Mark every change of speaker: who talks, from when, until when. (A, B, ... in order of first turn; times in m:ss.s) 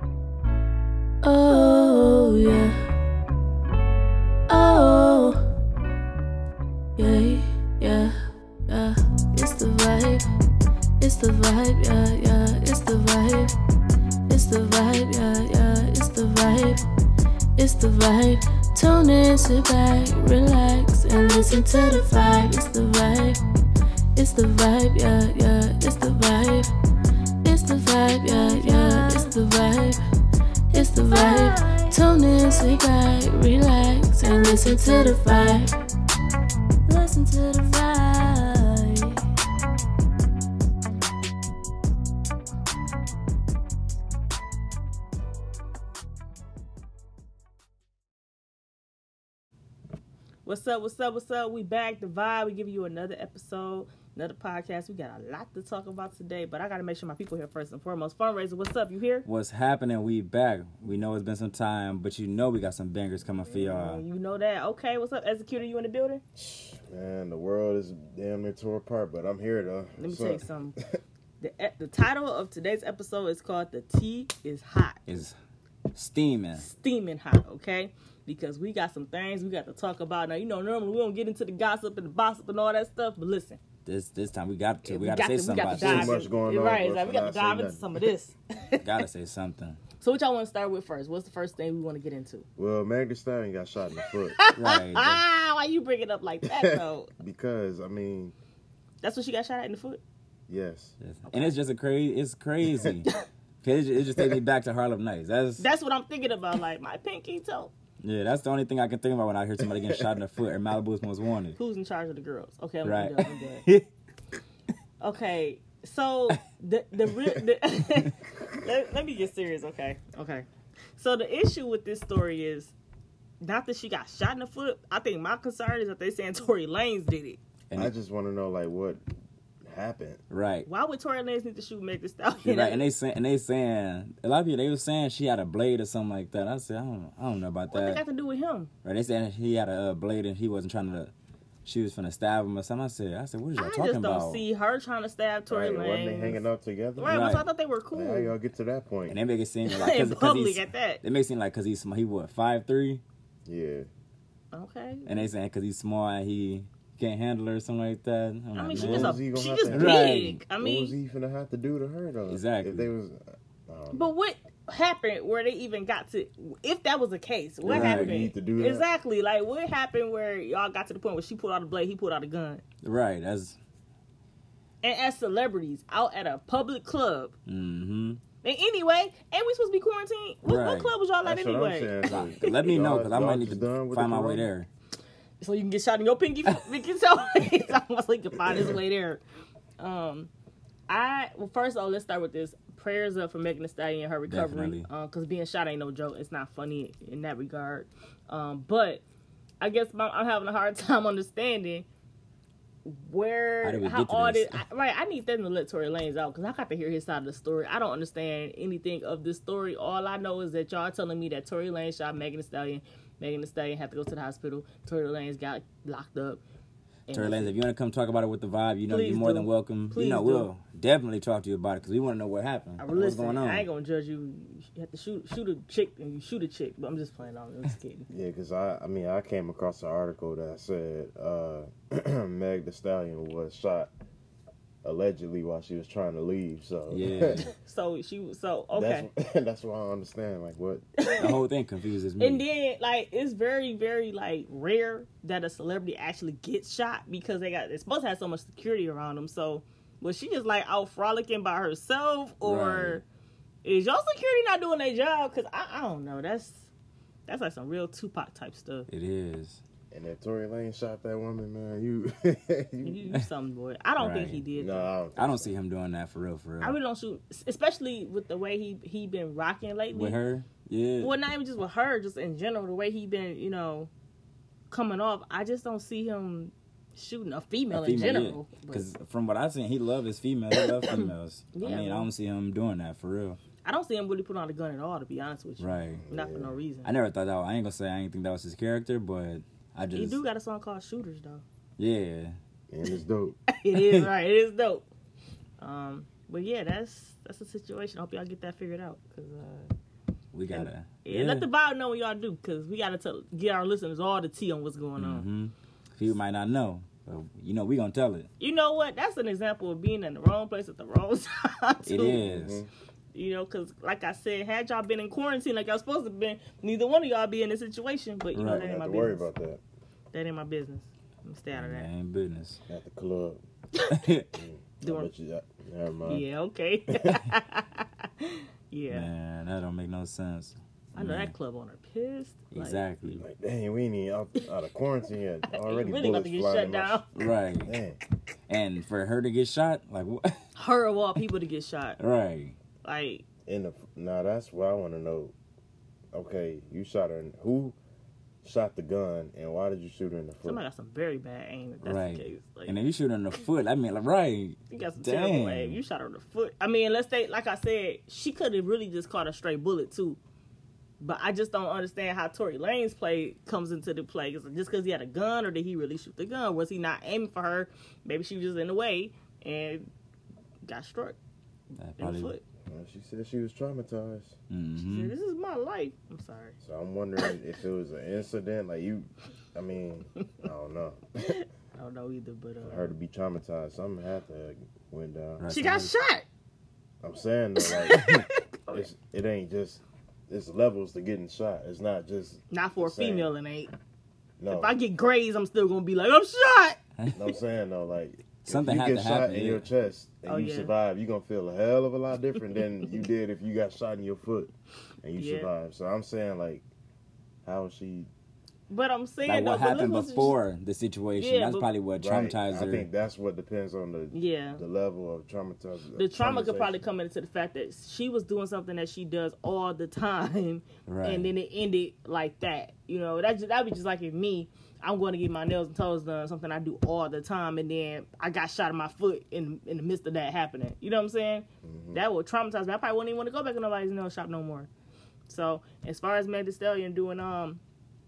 0:01.2-0:02.8 A
0:04.5-0:05.4 A
0:07.0-0:08.2 A
0:08.7-0:10.3 A
0:11.0-0:13.5 A
0:14.3-0:16.8 A
0:17.6-0:23.4 A
0:24.2-0:26.7 A
0:27.4-0:30.0 A
0:28.7-0:29.3 B
0:30.7-0:35.8 A
0:31.1-0:32.0 B
0:36.9-0:39.2 A
0:50.4-0:59.3 B
0:59.3-1:04.0 C
1:03.5-1:06.2 B
1:06.4-1:11.0 D
1:10.0-1:10.8 B
1:11.4-1:15.0 B
1:15.1-1:15.4 C
1:15.9-1:16.7 C
1:16.6-1:23.6 B
1:23.8-1:26.2 C
1:24.8-1:29.0 B
1:25.7-1:27.9 D
1:28.8-1:29.8 C
1:30.0-1:32.5 B
1:32.6-1:34.4 D
1:34.4-1:37.1 B
1:34.5-1:35.2 C
1:36.4-1:38.4 D
1:39.0-1:40.0 B
1:40.5-1:40.9 D
1:41.0-1:43.1 C
1:41.3-1:41.6 B
1:43.6-1:45.6 C
1:45.6-1:47.7 B
1:48.0-1:51.6 C
1:49.6-1:50.0 D
1:51.6-1:53.6 B
1:52.8-1:53.8 C
1:55.0-2:02.7 B
2:03.4-2:07.4 B
2:07.8-2:09.0 D
2:09.6-2:10.2 D
2:10.3-2:10.7 C
2:10.7-2:12.8 B
2:12.4-2:18.0 C
2:17.7-2:18.7 B
2:18.8-2:21.1 C
2:21.6-2:24.4 C
2:23.6-2:26.4 B
2:25.5-2:27.3 D
2:27.0-2:28.3 B
2:27.1-2:27.5 C
2:27.9-2:29.2 D
2:29.1-2:33.0 C
2:29.6-2:31.0 B
2:33.5-2:33.9 D
2:34.5-2:35.3 B
2:35.1-2:40.4 C
2:38.6-2:41.0 B
2:38.8-2:44.1 D
2:42.3-2:42.9 C
2:43.9-2:52.6 B
2:47.6-2:48.8 D
2:47.7-2:48.2 C
2:52.8-2:53.6 C
2:54.8-2:57.3 B
2:57.5-2:58.2 C
2:58.4-3:02.6 B
3:00.4-3:00.9 C
3:01.2-3:04.5 D
3:02.0-3:04.7 C
3:05.4-3:09.2 B
3:08.5-3:08.8 D
3:09.8-3:10.3 B
3:10.9-3:19.0 B
3:14.3-3:14.9 C
3:19.6-3:21.9 B
3:22.8-3:36.4 B
3:23.6-3:24.6 C
3:37.1-3:37.6 B
3:37.1-3:43.7 C
3:38.9-3:40.5 B
3:42.8-3:48.1 B
3:48.1-3:53.9 D
3:54.8-3:57.5 D
3:56.9-3:57.5 C
3:57.5-3:59.1 B
3:58.7-4:00.8 D
4:01.0-4:01.4 B
4:01.2-4:02.4 C
4:02.2-4:13.0 B
4:12.4-4:13.0 C
4:13.6-4:16.7 B
4:17.3-4:18.9 B
4:18.9-4:19.6 C
4:19.9-4:23.1 D
4:22.8-4:24.9 B
4:24.0-4:24.4 C
4:24.6-4:25.5 D
4:25.2-4:26.8 C
4:26.6-4:30.2 B
4:29.9-4:31.1 C
4:31.0-4:33.9 B
4:34.7-4:38.9 B
4:37.7-4:43.4 C
4:40.6-4:42.1 B
4:43.6-4:46.9 B
4:45.6-4:46.0 C
4:46.0-4:46.5 D
4:46.8-4:50.2 C
4:50.0-4:51.4 B
4:51.8-4:52.4 C
4:52.7-4:53.4 D
4:53.5-4:54.8 B
4:53.7-4:54.1 C
4:55.6-4:59.7 B
5:00.3-5:01.5 C
5:00.5-5:05.2 B
5:05.0-5:08.3 C
5:08.4-5:12.2 B
5:11.9-5:12.6 C
5:12.0-5:12.7 D
5:13.1-5:19.3 B
5:18.4-5:18.6 C
5:18.4-5:19.6 D
5:20.1-5:21.9 B
5:21.6-5:22.6 C
5:22.7-5:23.4 D
5:23.9-5:24.3 C
5:24.4-5:26.2 D
5:24.8-5:25.1 B
5:26.1-5:29.1 B
5:26.9-5:27.2 D
5:28.9-5:31.3 C
5:31.0-5:33.2 B
5:32.5-5:33.2 C
5:33.2-5:37.0 D
5:35.5-5:37.1 B
5:37.2-5:37.7 C
5:37.6-5:38.0 D
5:38.5-5:40.4 C
5:40.6-5:42.0 B
5:42.0-5:42.6 C
5:42.8-5:43.2 B
5:43.5-5:45.3 D
5:46.1-5:47.8 D
5:48.4-5:50.6 D
5:50.5-5:52.8 B
5:51.8-5:55.8 C
5:54.7-6:00.2 B
6:01.0-6:09.9 B
6:10.7-6:11.2 B
6:11.8-6:12.3 C
6:12.0-6:12.4 B
6:12.7-6:14.4 D
6:14.5-6:15.1 C
6:14.8-6:16.6 B
6:16.6-6:21.3 D
6:21.4-6:22.9 B
6:22.6-6:25.4 D
6:25.4-6:25.9 C
6:25.5-6:26.3 B
6:27.0-6:33.3 D
6:27.6-6:28.9 B
6:32.5-6:33.7 B
6:34.4-6:34.7 D
6:34.5-6:36.8 B
6:37.1-6:44.5 D
6:38.4-6:39.7 C
6:40.3-6:40.7 B
6:45.0-6:46.6 D
6:45.2-6:45.5 B
6:47.4-6:48.1 D
6:48.7-6:50.4 B
6:49.3-6:52.9 C
6:51.2-6:51.7 B
6:52.0-6:56.8 D
6:54.1-6:54.6 B
6:56.0-7:14.7 B
7:00.9-7:01.3 C
7:11.6-7:12.0 D
7:15.3-7:17.6 B